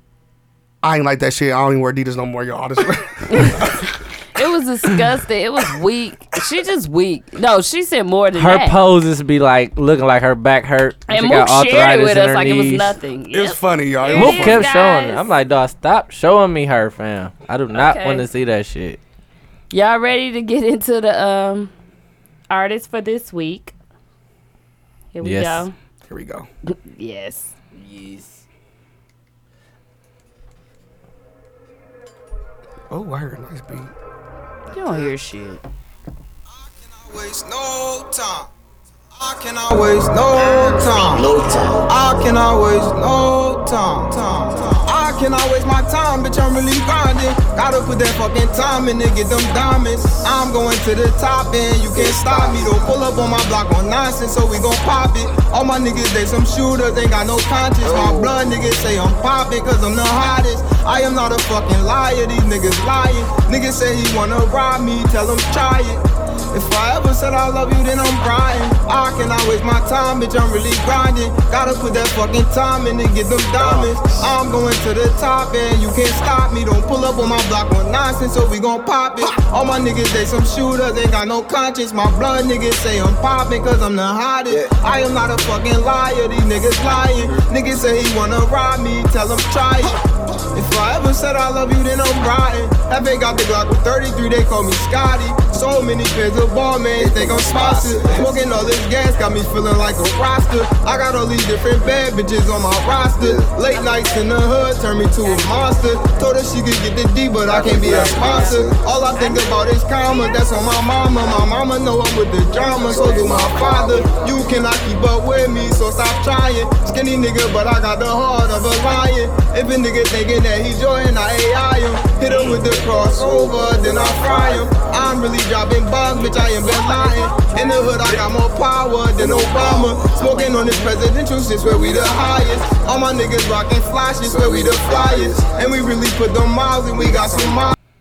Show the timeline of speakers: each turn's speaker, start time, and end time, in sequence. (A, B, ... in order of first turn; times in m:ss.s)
0:00.8-0:03.8 A
0:03.4-0:03.6 B
0:04.3-0:08.8 B
0:08.4-0:13.0 C
0:11.1-0:15.2 B
0:13.3-0:14.6 A
0:14.1-0:19.0 C
0:17.7-0:18.3 B
0:19.7-0:21.7 B
0:22.5-0:23.7 B
0:25.1-0:25.7 B
0:25.2-0:25.7 C
0:26.1-0:26.5 A
0:26.7-0:27.5 B
0:27.8-0:28.4 C
0:32.9-0:33.9 A
0:34.7-0:35.6 B
0:36.6-0:38.5 D
0:39.2-1:30.0 D
1:30.5-2:17.8 D
1:43.7-1:44.2 B
1:45.2-1:45.8 B
1:47.8-1:50.6 B
2:06.1-2:07.9 B
2:10.2-2:11.0 B